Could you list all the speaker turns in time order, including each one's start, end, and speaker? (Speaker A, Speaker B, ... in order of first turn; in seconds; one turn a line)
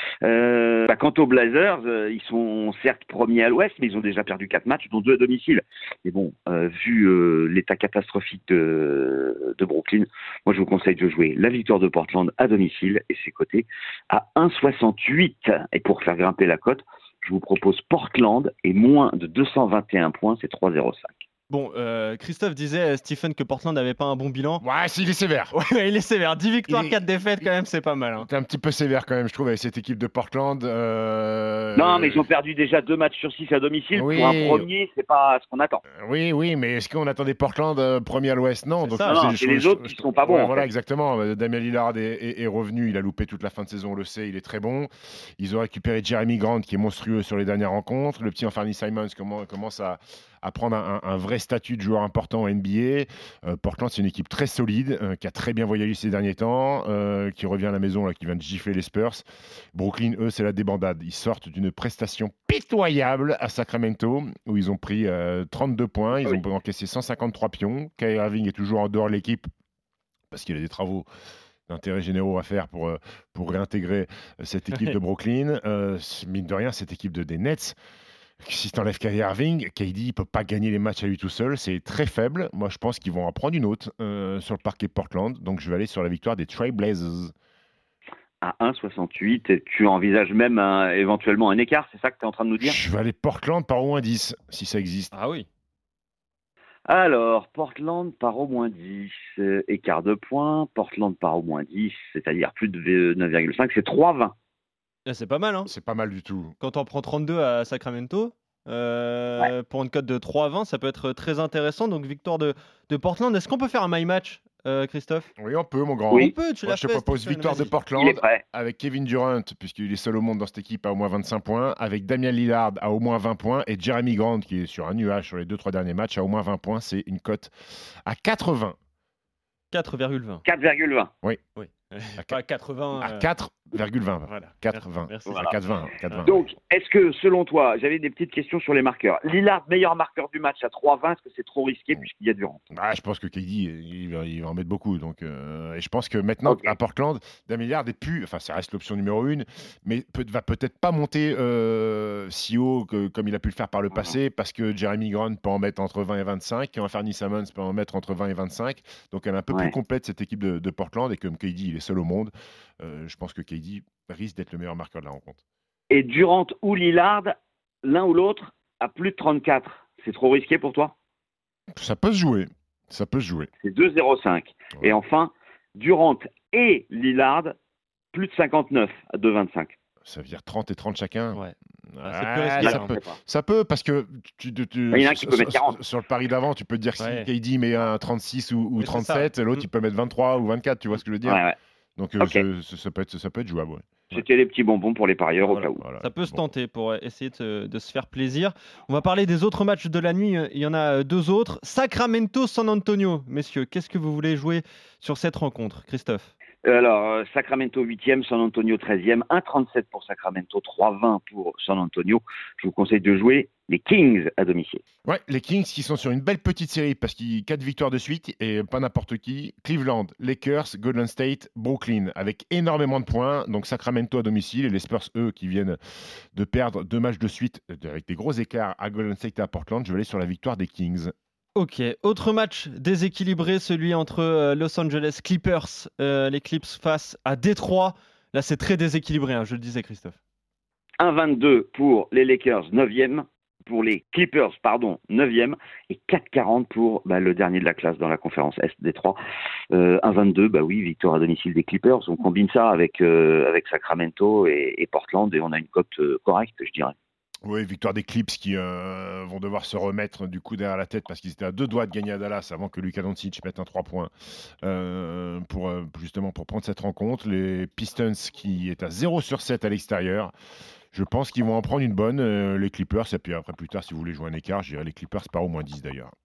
Speaker A: 0.2-21.2
Speaker B: 21.5-24.6
Speaker C: 24.6-25.5
Speaker B: 25.5-28.3
Speaker C: 26.7-27.0
Speaker C: 28.2-32.2
Speaker A: 31.8-35.8
Speaker C: 33.9-34.6
Speaker C: 36.0-69.5
Speaker B: 38.8-39.2
Speaker A: 39.0-40.7
Speaker C: 70.3-71.1
Speaker C: 71.7-77.8
Speaker C: 78.4-87.3
Speaker A: 88.4-92.8
Speaker C: 92.6-95.1
Speaker B: 95.1-95.5
Speaker A: 96.9-104.3
Speaker B: 105.0-105.7
Speaker C: 105.7-106.5
Speaker B: 106.6-115.3
Speaker C: 115.4-127.5
Speaker B: 116.1-117.7
Speaker A: 118.0-118.4
Speaker C: 128.1-128.8
Speaker B: 129.7-130.4
Speaker A: 130.4-131.1
Speaker B: 131.6-133.3
Speaker C: 133.0-136.4
Speaker B: 134.3-135.5
Speaker A: 136.2-142.6
Speaker C: 142.7-165.4
Speaker A: 146.4-146.7
Speaker A: 165.9-170.9
Speaker C: 171.8-173.5
Speaker A: 173.6-177.5
Speaker A: 178.1-179.7
Speaker C: 180.1-191.4
Speaker B: 181.3-183.0
Speaker A: 182.6-183.2
Speaker A: 184.9-185.8
Speaker B: 187.0-187.3
Speaker B: 188.8-189.6
Speaker A: 191.2-191.5
Speaker C: 192.0-194.2
Speaker A: 194.1-195.8
Speaker B: 195.5-206.3
Speaker C: 195.7-196.4
Speaker A: 206.6-214.8
Speaker C: 215.0-225.8
Speaker C: 226.3-231.1
Speaker B: 231.5-240.2
Speaker A: 241.0-249.2
Speaker A: 249.7-256.9
Speaker C: 257.4-264.1
Speaker C: 264.6-270.3
Speaker C: 270.9-276.1